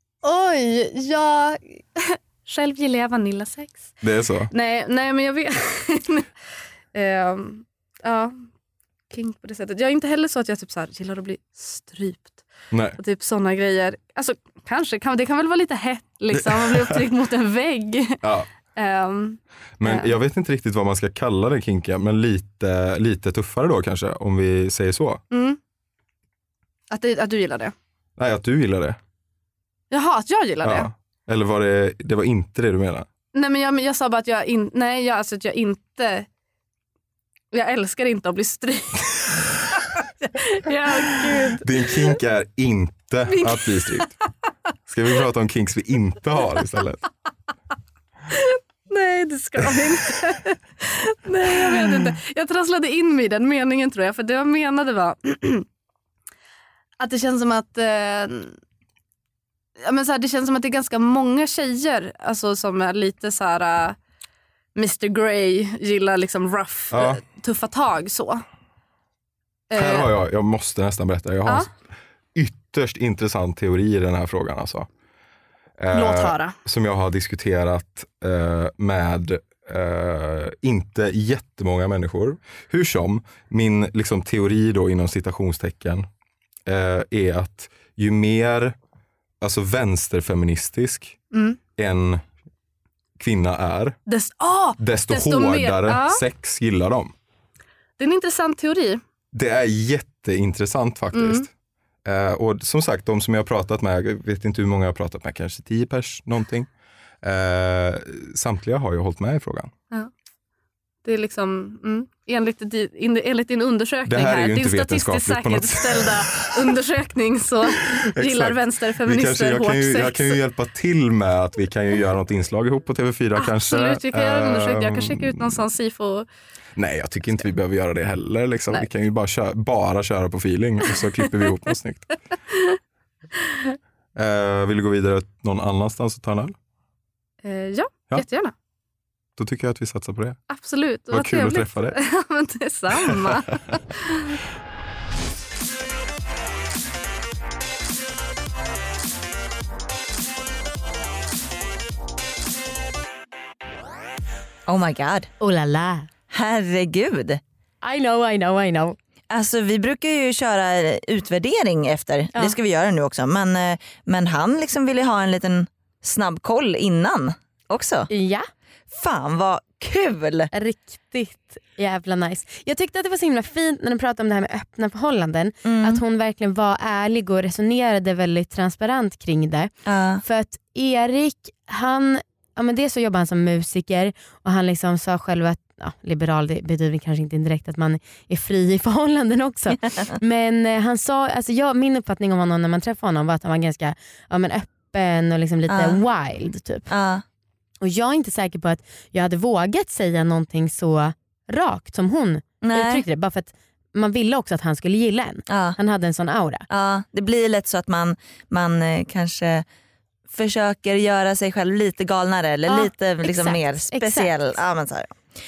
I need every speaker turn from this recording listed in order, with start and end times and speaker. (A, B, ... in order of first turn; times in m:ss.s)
0:00.2-0:03.9 A
0:04.0-0:04.5 B
0:04.5-0:06.3 A
0:06.9-0:08.5 A
0:09.1-0:12.4 A
0:12.7-0:13.0 B
0:13.0-0:18.2 A
0:16.3-0:17.0 B
0:18.2-0:18.5 B
0:18.8-0:20.1 A
0:19.8-0:25.2 B
0:25.3-0:25.6 A
0:26.9-0:27.7 A
0:28.2-0:29.0 B
0:29.9-0:30.9 A
0:30.6-0:33.1 B
0:33.3-0:36.3 A
0:37.5-0:42.2 A
0:41.6-0:44.1 B
0:43.3-0:44.1 A
0:44.9-0:47.0 B
0:48.3-0:55.7 A
0:57.0-0:58.6 A
0:59.8-1:04.0 A
1:04.8-1:08.4 A
1:06.9-1:07.2 B
1:09.7-1:10.1 A
1:09.7-1:11.8 B
1:12.4-1:14.9 B
1:15.8-1:26.1 B
1:15.9-1:16.6 A
1:26.7-1:28.8 B
1:29.4-1:31.2 B
1:31.3-1:31.6 A
1:31.8-1:32.2 B
1:33.2-1:34.0 B
1:34.1-1:36.2 A
1:34.8-1:37.1 B
1:38.0-1:39.0 A
1:39.3-1:41.5 B
1:41.1-1:41.5 A
1:42.0-1:46.7 B
1:47.2-1:49.7 B
1:51.0-2:00.4 A
1:54.1-1:56.5 B
1:58.0-2:05.6 B
2:03.4-2:06.3 A
2:06.8-2:12.2 B
2:14.2-2:16.6 B
2:17.4-2:18.5 A
2:19.4-2:20.4 B
2:20.5-2:24.4 A
2:21.1-2:22.0 B
2:34.7-2:35.3 C
2:35.4-2:36.1 D
2:36.3-2:37.4 C
2:37.8-2:39.0 D
2:39.3-2:48.1 C
2:48.1-2:48.5 D
2:48.9-2:50.5 C
2:50.5-2:59.7 D
2:55.6-2:56.0 C
2:59.9-3:00.2 C
3:00.2-3:16.9 D
3:15.7-3:16.0 C
3:16.9-3:17.2 C
3:17.8-3:26.7 D
3:22.6-3:23.0 C
3:25.5-3:25.8 C
3:26.7-3:29.6 C
3:30.3-3:35.2 C
3:32.7-3:34.4 D